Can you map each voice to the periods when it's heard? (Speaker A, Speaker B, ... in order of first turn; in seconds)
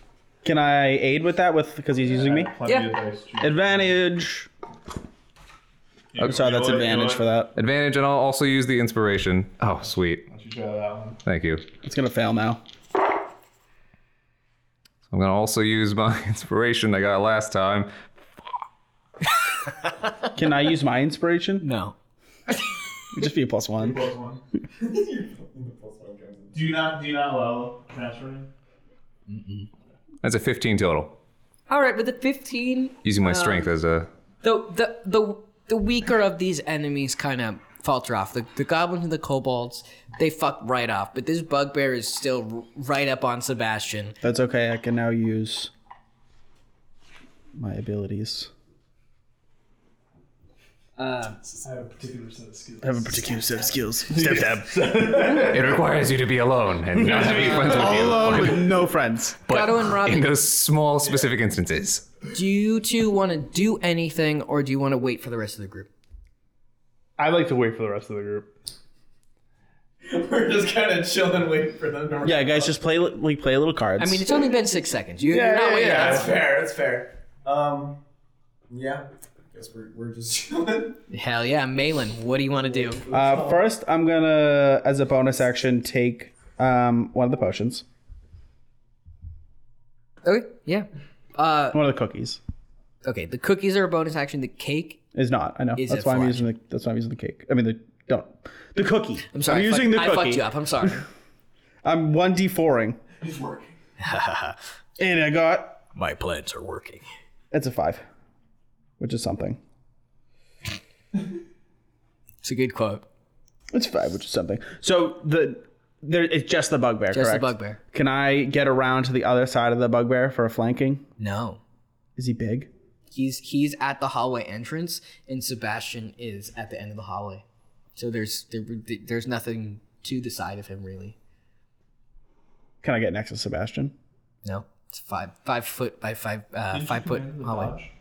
Speaker A: 0.4-2.5, 3.4-4.5, 6.2-7.5, 11.8-12.6, 20.4-21.7, 23.1-24.0, 44.2-45.7, 47.6-48.5, 52.8-55.4, 57.0-59.4, 72.2-74.3, 83.1-87.8, 91.7-92.4, 95.1-100.9, 101.8-103.0, 105.0-105.8, 107.5-108.0, 109.0-109.6, 113.7-121.1, 122.2-122.7, 132.8-133.9
Speaker B: 2.0-3.8, 6.1-7.2, 10.3-11.2, 23.8-24.4, 26.5-28.5, 51.6-53.3, 54.1-55.7, 67.2-68.5, 75.3-76.3, 103.2-103.7, 136.7-137.9
Speaker C: 2.6-2.9, 21.6-22.0, 29.3-29.7, 31.7-33.7, 34.4-44.2, 51.0-51.4, 59.5-60.3, 62.3-65.9, 74.0-76.3, 81.1-83.0, 90.2-91.8, 93.0-95.0, 95.8-96.5, 99.3-101.1, 104.0-104.6, 106.0-107.1, 112.4-113.1, 117.1-117.8, 121.2-121.6, 123.1-127.5, 128.0-131.2, 134.4-137.8
Speaker D: 7.6-10.3, 11.2-11.7, 15.1-17.9, 30.2-31.2, 33.0-34.1, 55.3-58.8, 59.5-62.1
Speaker E: 24.8-26.6, 70.0-72.8, 75.8-78.0, 78.7-81.0, 83.0-83.6